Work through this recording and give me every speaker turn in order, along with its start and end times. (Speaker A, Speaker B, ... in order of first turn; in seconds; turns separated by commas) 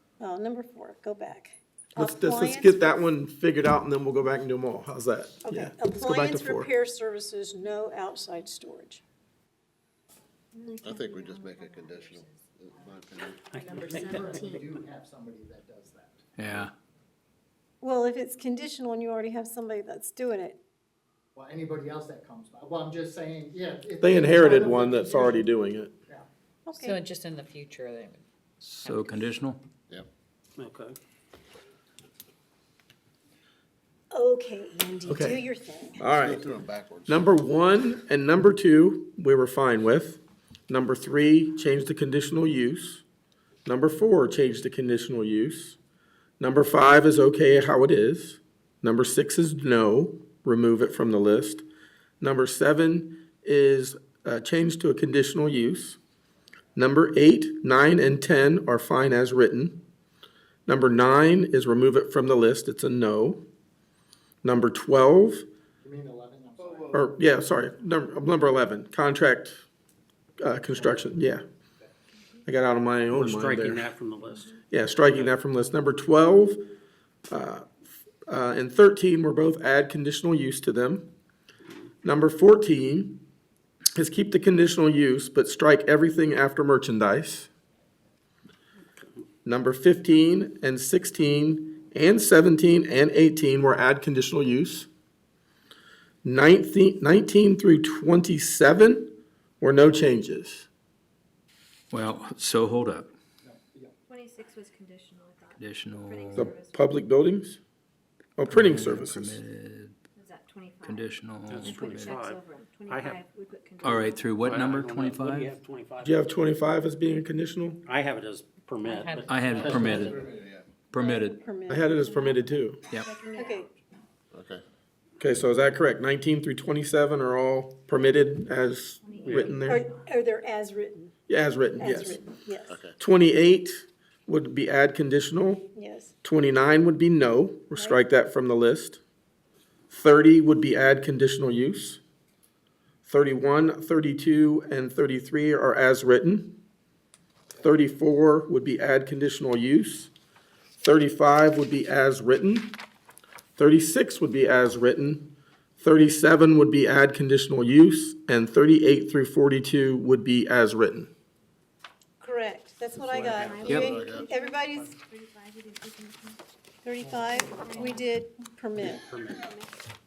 Speaker A: 0.2-3.0, Speaker B: 1.9-6.7, Speaker A: 5.5-9.0, Speaker C: 10.5-12.4, Speaker D: 10.8-13.4, Speaker E: 13.5-14.6, Speaker C: 13.5-14.8, Speaker F: 13.7-16.7, Speaker G: 16.4-16.7, Speaker A: 17.8-20.6, Speaker F: 21.4-25.5, Speaker B: 24.0-25.9, Speaker A: 26.7-27.0, Speaker H: 26.7-28.3, Speaker G: 28.6-29.6, Speaker H: 28.9-29.1, Speaker E: 30.6-30.9, Speaker A: 34.1-36.0, Speaker B: 35.1-35.4, Speaker B: 36.0-36.5, Speaker D: 36.1-37.4, Speaker B: 37.1-43.0, Speaker B: 43.7-45.8, Speaker B: 46.4-51.6, Speaker B: 52.2-56.0, Speaker B: 56.8-59.8, Speaker B: 60.7-63.4, Speaker B: 64.4-65.5, Speaker F: 65.8-67.0, Speaker D: 66.6-67.1, Speaker B: 66.9-69.7, Speaker B: 70.4-71.4, Speaker F: 70.7-71.2, Speaker B: 72.5-73.9, Speaker E: 73.1-75.3, Speaker B: 74.7-76.7, Speaker B: 77.3-81.1, Speaker B: 82.0-83.2, Speaker B: 83.9-87.5, Speaker B: 89.5-94.9, Speaker B: 96.2-100.7, Speaker G: 101.9-103.1, Speaker F: 103.4-103.9, Speaker C: 104.1-106.9, Speaker G: 105.6-106.5, Speaker B: 106.3-107.6, Speaker B: 108.4-109.4, Speaker G: 108.5-110.0, Speaker C: 110.2-114.4, Speaker G: 110.8-112.2, Speaker E: 111.5-113.2, Speaker G: 113.8-115.5, Speaker E: 114.4-116.3, Speaker B: 116.0-117.8, Speaker E: 117.9-120.3, Speaker H: 118.9-120.2, Speaker G: 119.3-120.1, Speaker D: 119.6-120.7, Speaker G: 120.9-121.4, Speaker A: 121.0-122.3, Speaker B: 121.7-122.8, Speaker C: 122.1-122.4, Speaker A: 122.9-123.7, Speaker C: 123.3-123.7, Speaker D: 124.3-124.6, Speaker B: 125.2-129.8, Speaker C: 129.0-130.4, Speaker E: 129.2-129.6, Speaker A: 129.6-131.1, Speaker B: 131.3-132.2, Speaker A: 131.8-132.8, Speaker D: 132.7-133.0, Speaker B: 133.0-135.7, Speaker A: 135.7-136.1, Speaker B: 136.2-139.0, Speaker A: 137.8-138.0, Speaker B: 139.9-142.0, Speaker B: 143.1-146.6, Speaker B: 147.6-150.1, Speaker B: 150.8-152.8, Speaker B: 153.6-161.1, Speaker A: 162.2-165.0, Speaker E: 163.0-163.8, Speaker C: 163.4-166.4, Speaker D: 163.6-164.3, Speaker A: 166.8-169.1, Speaker F: 167.0-168.0, Speaker C: 167.4-168.2, Speaker E: 168.8-169.5